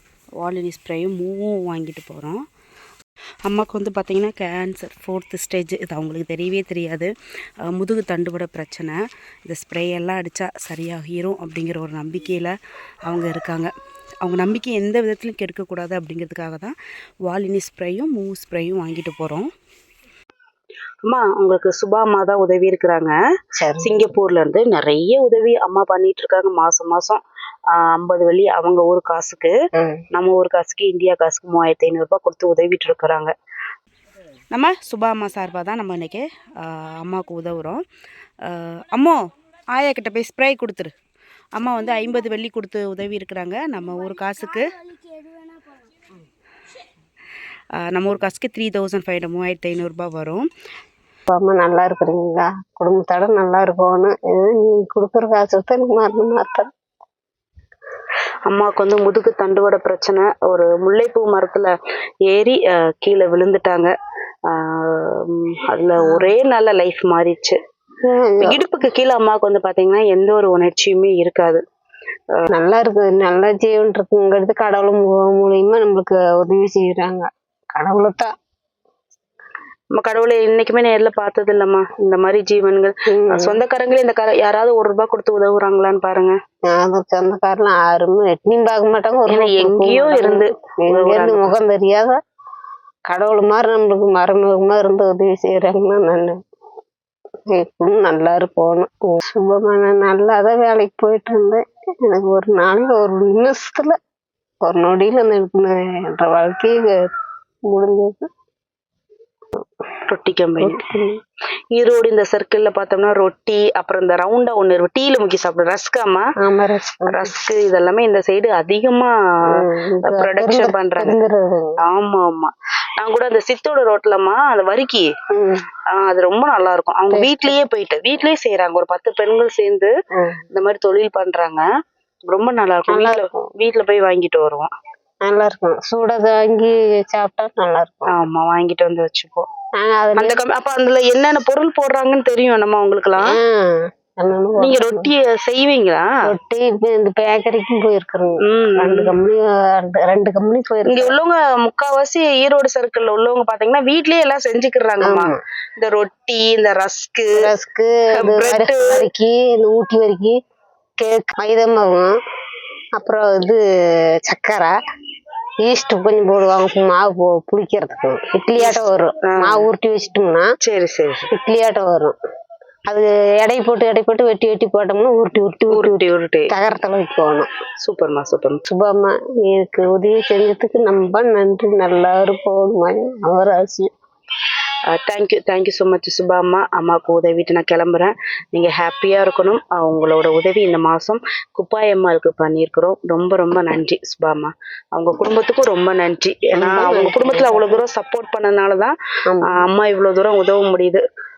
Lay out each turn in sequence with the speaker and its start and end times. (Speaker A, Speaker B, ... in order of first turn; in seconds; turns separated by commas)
Speaker A: 0.4-2.4, Speaker A: 3.4-7.1, Speaker A: 7.6-13.7, Speaker A: 14.2-16.7, Speaker A: 17.3-19.5, Speaker A: 21.0-23.1, Speaker B: 23.6-23.9, Speaker A: 23.8-27.2, Speaker A: 27.7-29.6, Speaker B: 29.7-30.0, Speaker A: 30.1-33.3, Speaker A: 34.5-37.8, Speaker A: 38.4-40.9, Speaker A: 41.5-44.8, Speaker A: 47.8-50.5, Speaker B: 51.3-56.7, Speaker A: 58.5-61.7, Speaker A: 62.3-63.9, Speaker A: 64.5-67.6, Speaker B: 66.0-66.3, Speaker B: 68.0-68.6, Speaker A: 68.4-71.6, Speaker B: 72.5-78.3, Speaker A: 80.0-86.4, Speaker B: 83.1-83.6, Speaker B: 86.7-92.2, Speaker A: 89.3-91.5, Speaker B: 93.1-96.4, Speaker B: 97.5-104.0, Speaker B: 104.6-107.1, Speaker B: 107.7-108.3, Speaker A: 110.1-110.8, Speaker B: 110.6-111.2, Speaker A: 111.7-116.3, Speaker B: 116.4-117.3, Speaker A: 117.1-119.1, Speaker B: 119.5-121.8, Speaker A: 120.0-121.2, Speaker A: 121.8-125.1, Speaker B: 125.3-125.6, Speaker A: 125.9-129.9, Speaker B: 127.1-127.6, Speaker B: 130.1-130.4, Speaker A: 130.5-131.7, Speaker A: 132.3-134.7, Speaker B: 132.9-133.5, Speaker B: 135.3-138.1, Speaker A: 138.1-139.5, Speaker B: 139.8-140.4, Speaker A: 140.2-143.3, Speaker B: 143.2-145.1, Speaker A: 144.6-146.1, Speaker B: 146.3-151.1, Speaker A: 148.4-149.1, Speaker A: 150.8-157.5, Speaker B: 155.0-155.4, Speaker B: 157.3-160.4, Speaker A: 158.1-159.0, Speaker B: 161.0-162.1, Speaker B: 162.9-163.6, Speaker B: 164.2-164.7, Speaker B: 165.6-170.5, Speaker A: 168.6-169.6, Speaker A: 170.6-171.3, Speaker B: 171.3-172.1, Speaker B: 172.9-177.5, Speaker A: 175.7-176.5, Speaker A: 177.8-178.6, Speaker B: 178.7-183.9, Speaker A: 184.9-201.0, Speaker B: 196.6-197.8, Speaker B: 199.3-199.7